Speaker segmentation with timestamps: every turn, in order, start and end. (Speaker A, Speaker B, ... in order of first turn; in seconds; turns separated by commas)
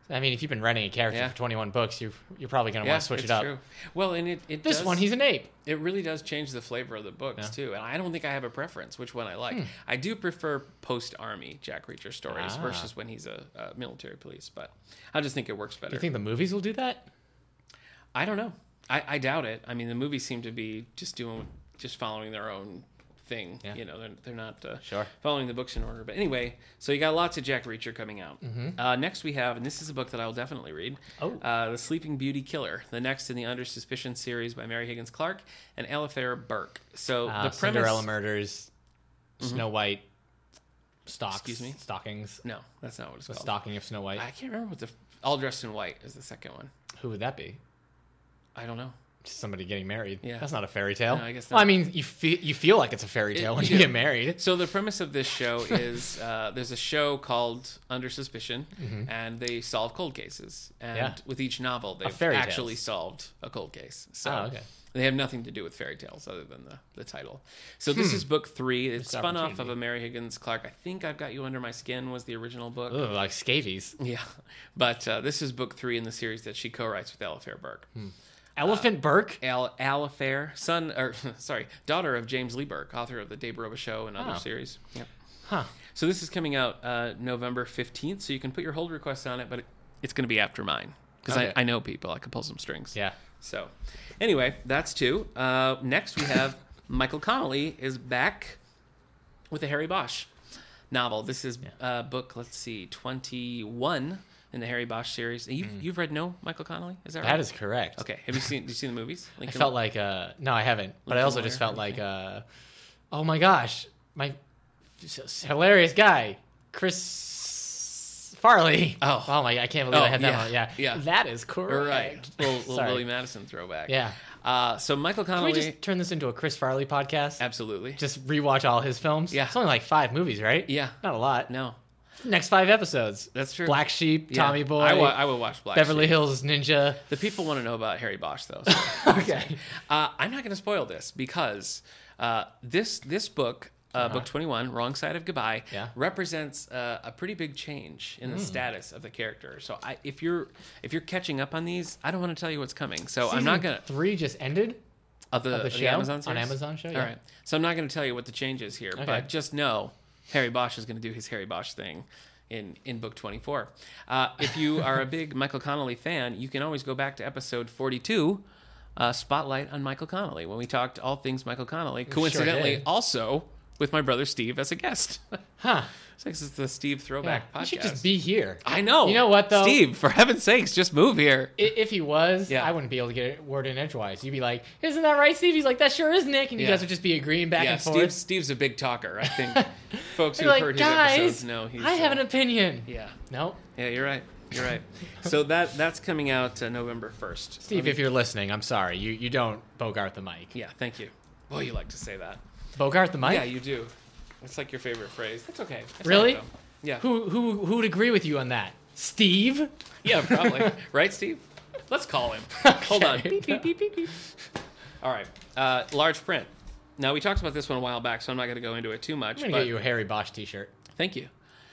Speaker A: 0.1-3.5, Speaker B: 1.1-1.4, Speaker B: 2.8-5.1, Speaker A: 4.6-5.5, Speaker B: 5.6-16.1, Speaker A: 12.3-12.9, Speaker A: 15.9-17.1, Speaker B: 18.1-38.1, Speaker A: 24.8-25.1, Speaker A: 28.4-28.8, Speaker A: 37.3-38.7, Speaker B: 39.4-39.6, Speaker A: 39.4-40.0, Speaker A: 41.1-42.4, Speaker B: 41.3-41.8, Speaker B: 42.4-43.5, Speaker A: 43.3-44.2, Speaker B: 44.2-46.7, Speaker A: 47.0-47.6, Speaker B: 48.5-49.0, Speaker A: 49.2-54.4, Speaker B: 50.2-50.5, Speaker B: 51.1-51.7, Speaker B: 53.3-73.0, Speaker A: 58.8-59.1, Speaker A: 62.0-62.8, Speaker A: 64.2-64.6, Speaker A: 68.0-68.2, Speaker A: 69.0-69.7, Speaker A: 72.9-74.0, Speaker B: 74.0-77.9, Speaker A: 78.0-79.4, Speaker B: 79.4-85.1, Speaker B: 85.9-98.6, Speaker A: 91.3-91.6, Speaker B: 99.5-100.3, Speaker B: 100.9-107.4, Speaker A: 107.2-108.0, Speaker B: 108.0-109.8, Speaker A: 109.5-112.4, Speaker B: 111.1-112.0, Speaker A: 113.1-114.4, Speaker A: 115.0-123.0, Speaker B: 119.0-119.4, Speaker B: 119.9-121.0, Speaker B: 121.7-125.8, Speaker A: 123.9-124.2, Speaker A: 125.4-127.4, Speaker B: 127.4-128.0, Speaker A: 128.0-131.5, Speaker B: 129.3-129.6, Speaker B: 130.7-131.0, Speaker B: 131.5-131.8, Speaker A: 132.2-137.0, Speaker B: 133.3-136.2, Speaker B: 137.1-153.9, Speaker A: 138.7-139.6, Speaker A: 144.0-144.3, Speaker A: 153.2-154.8, Speaker B: 155.3-168.4, Speaker A: 155.5-157.1, Speaker A: 159.0-159.3, Speaker B: 169.0-175.4, Speaker A: 172.1-172.8, Speaker A: 175.6-175.9, Speaker B: 176.2-178.0, Speaker A: 177.2-179.8, Speaker B: 178.6-181.7, Speaker A: 181.6-188.2, Speaker B: 182.5-182.7, Speaker B: 186.6-186.9, Speaker B: 187.6-192.2, Speaker A: 189.3-193.6, Speaker B: 192.9-193.2, Speaker B: 193.8-198.0, Speaker A: 197.6-200.5, Speaker B: 200.5-202.4, Speaker A: 202.8-203.5, Speaker B: 203.2-207.1, Speaker A: 206.0-206.4, Speaker A: 207.0-210.7, Speaker B: 210.0-214.1, Speaker A: 212.6-213.7, Speaker B: 215.0-219.7, Speaker A: 219.4-220.7, Speaker B: 221.0-221.3